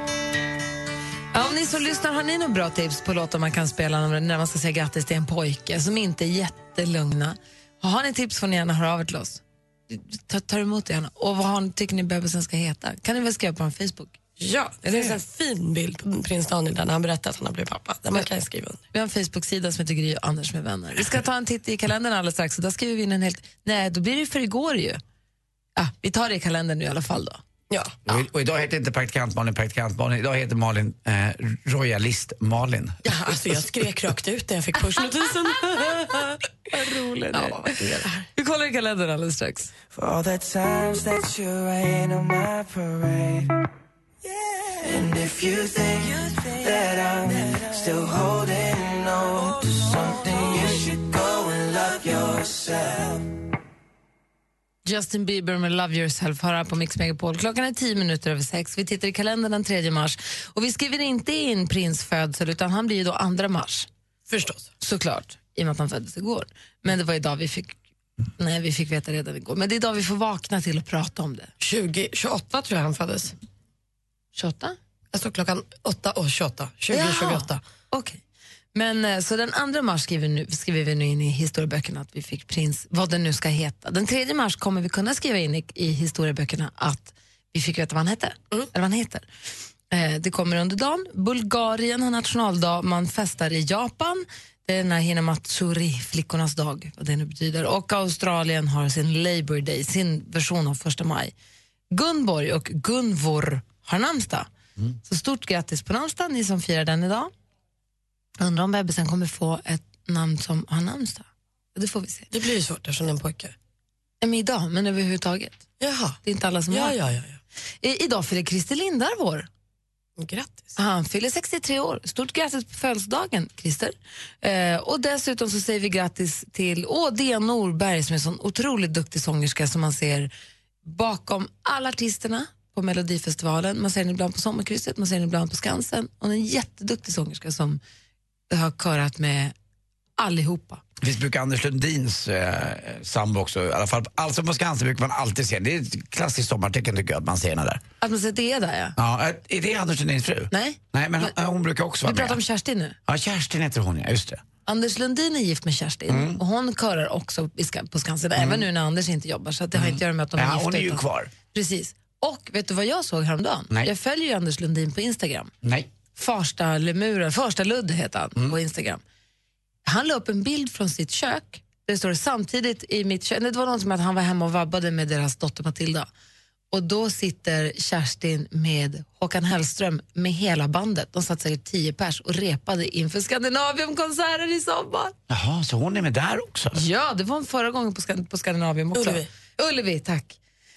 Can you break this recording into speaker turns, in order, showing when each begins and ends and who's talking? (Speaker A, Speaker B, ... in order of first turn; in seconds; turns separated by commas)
Speaker A: 1.3-14.1, Speaker B: 14.4-18.8, Speaker A: 14.8-15.2, Speaker A: 18.9-25.0, Speaker A: 25.8-27.4, Speaker B: 27.7-28.0, Speaker C: 28.1-33.7, Speaker B: 33.0-36.5, Speaker A: 36.7-39.7, Speaker B: 37.3-38.2, Speaker D: 39.9-43.6, Speaker D: 44.8-53.3, Speaker A: 54.9-63.9, Speaker B: 64.3-64.7, Speaker A: 64.8-67.8, Speaker A: 68.4-71.5, Speaker B: 71.6-73.3, Speaker A: 74.3-74.8, Speaker B: 75.1-77.6, Speaker A: 76.9-78.2, Speaker A: 78.7-89.2, Speaker A: 89.9-101.3, Speaker A: 101.9-104.5, Speaker A: 105.0-107.3, Speaker A: 108.4-112.3, Speaker B: 112.3-113.5, Speaker A: 114.2-115.7, Speaker B: 115.8-116.2, Speaker A: 116.2-117.0, Speaker B: 116.7-117.4, Speaker A: 117.8-119.5, Speaker B: 120.2-120.7, Speaker A: 120.8-130.3, Speaker A: 130.8-137.8, Speaker A: 138.5-139.5, Speaker A: 140.2-140.8, Speaker C: 141.0-147.8, Speaker A: 148.0-148.9, Speaker C: 149.0-152.4, Speaker A: 150.5-151.3, Speaker A: 152.0-153.0, Speaker C: 153.1-154.4, Speaker A: 154.7-165.5, Speaker C: 156.1-156.4, Speaker C: 158.4-158.7, Speaker C: 159.8-161.3, Speaker C: 165.6-165.9, Speaker A: 166.1-169.0, Speaker A: 169.8-176.1, Speaker A: 176.7-185.1, Speaker C: 185.3-186.8, Speaker A: 186.7-190.4, Speaker B: 188.9-189.3